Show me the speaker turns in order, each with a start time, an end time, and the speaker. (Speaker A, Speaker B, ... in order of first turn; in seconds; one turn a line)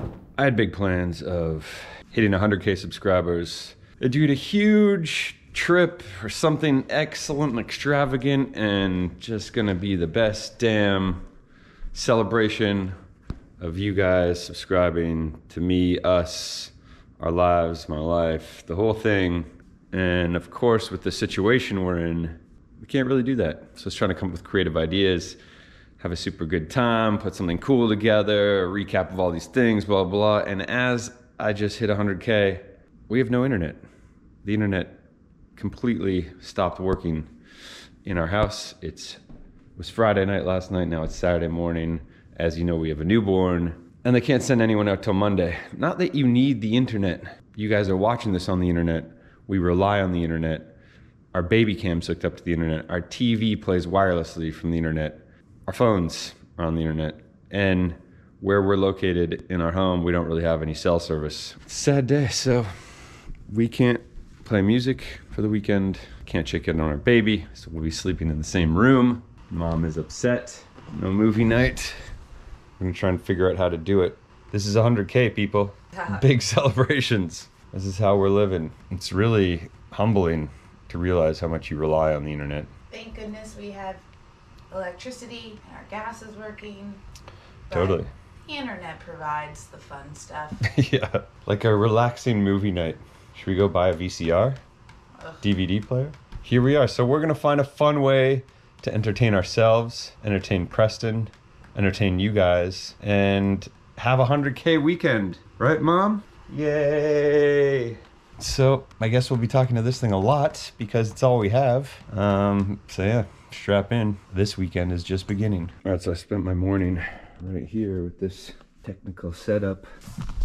Speaker A: 0.3-11.3
Speaker A: 11.9-12.9
Speaker A: 13.6-25.4
Speaker A: 26.0-33.8
Speaker A: 34.4-35.0
Speaker A: 35.5-37.3
Speaker A: 38.0-39.2
Speaker A: 39.8-50.7
Speaker A: 51.3-72.0
Speaker A: 72.8-82.7
Speaker B: 82.9-84.0
Speaker B: 84.7-87.0
Speaker A: 87.7-88.1
Speaker B: 87.7-90.6
Speaker A: 90.6-94.6
Speaker B: 95.2-95.4
Speaker A: 95.4-119.8